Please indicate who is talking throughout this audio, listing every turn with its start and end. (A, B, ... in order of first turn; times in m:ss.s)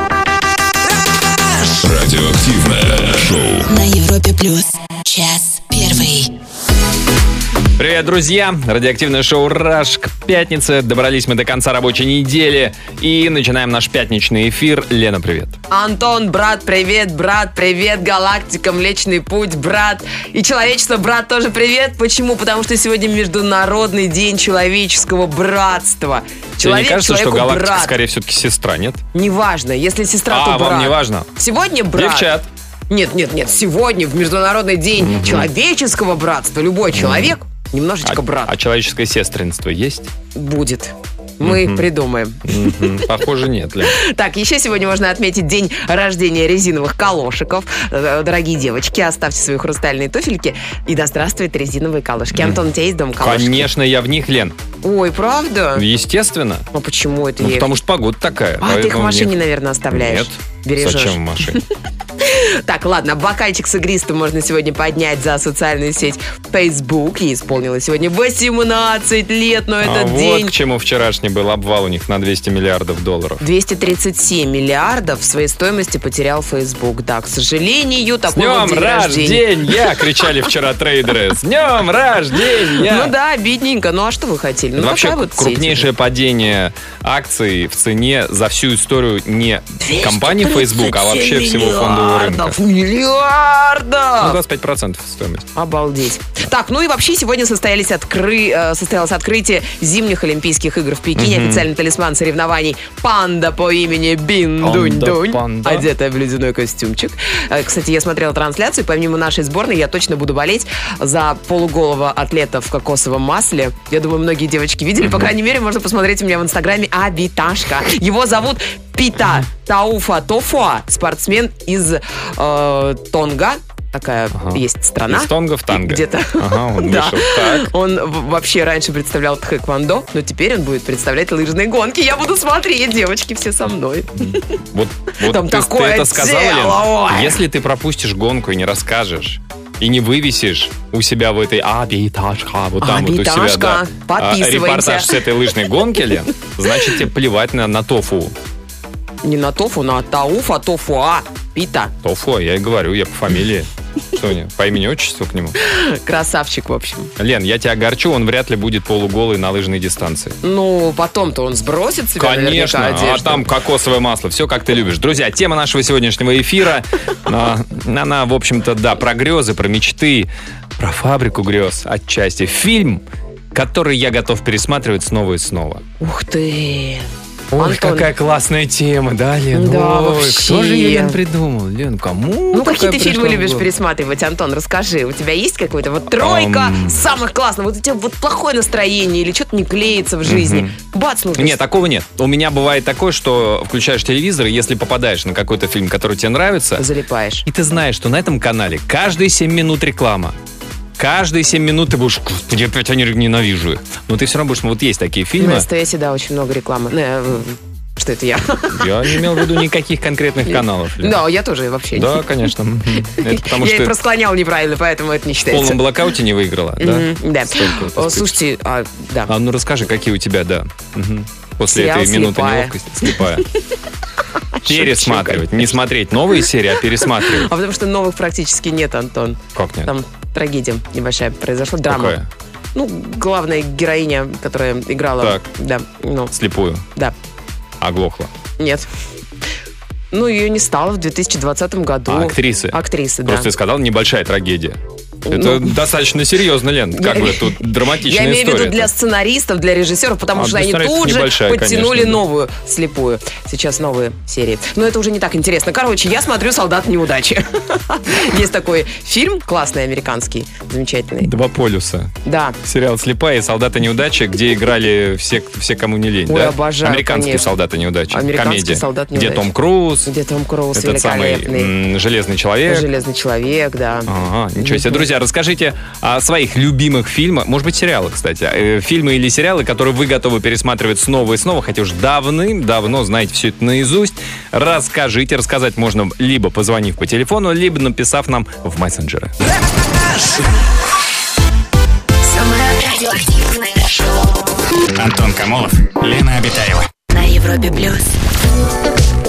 0:01.6-0:03.7 A
0:03.7-0:06.3 B
0:07.8-0:15.6 C
0:15.7-0:28.0 D
0:26.6-0:29.0 C
0:29.1-0:32.3 D
0:30.3-0:31.3 C
0:31.9-0:32.5 C
0:32.9-0:38.5 D
0:35.0-0:35.5 C
0:36.9-0:37.3 C
0:38.0-0:40.1 C
0:40.4-0:43.1 D
0:41.4-0:41.9 C
0:42.4-0:44.0 C
0:43.8-0:53.7 D
0:52.3-0:52.6 C
0:53.2-0:54.6 C
0:54.8-0:55.8 D
0:55.7-0:56.7 C
0:56.7-0:57.7 D
0:57.4-0:59.4 C
0:58.6-1:01.6 D
0:59.9-1:01.6 C
1:02.2-1:10.5 D
1:09.8-1:13.4 C
1:13.4-1:20.0 D
1:18.3-1:23.1 C
1:22.7-1:25.9 D
1:24.8-1:32.6 C
1:29.9-1:34.4 D
1:30.0-1:32.3 B
1:34.2-1:35.5 C
1:35.6-2:14.6 D
1:41.2-1:41.7 C
1:44.6-1:45.9 C
1:55.0-1:55.3 C
2:04.3-2:07.7 C
2:14.2-2:28.4 C
2:15.2-2:17.4 D
2:22.8-2:25.2 D
2:29.2-2:31.9 D
2:32.0-2:35.6 C
2:35.6-2:37.1 D
2:37.2-2:40.4 C
2:40.4-2:43.4 D
2:42.2-2:53.0 C
2:53.5-2:55.8 C
2:56.0-2:58.1 D
2:57.5-3:03.7 C
2:59.5-3:01.2 D
3:02.5-3:11.6 D
3:06.2-3:07.0 C
3:10.2-3:10.8 C
3:11.4-3:16.9 C
3:16.8-3:17.5 D
3:17.5-3:20.4 C
3:21.0-3:25.7 C
3:25.4-3:29.5 D
3:28.7-3:31.2 C
3:30.5-3:35.8 D
3:31.9-3:34.0 C
3:35.5-3:38.4 C
3:36.8-3:39.3 D
3:39.3-3:43.4 C
3:41.7-3:43.2 D
3:44.5-3:45.8 D
3:44.6-3:47.5 C
3:47.2-3:52.2 D
3:49.6-3:49.9 C
3:51.9-3:52.3 C
3:52.8-3:56.3 D
3:55.2-3:55.5 C
3:56.3-3:56.8 C
3:57.8-3:58.3 C
3:58.6-3:58.9 D
4:00.1-4:03.5 D
4:02.1-4:08.9 C
4:05.2-4:05.8 D
4:06.9-4:21.3 D
4:10.4-4:12.2 C
4:21.2-4:30.1 C
4:22.2-4:22.6 D
4:26.3-4:27.5 D
4:28.1-4:29.5 D
4:30.1-4:31.7 D
4:30.8-4:32.9 C
4:32.7-4:35.1 D
4:34.1-4:49.4 C
4:52.2-4:54.6 B
4:54.9-4:56.9 E
4:57.1-4:58.1 B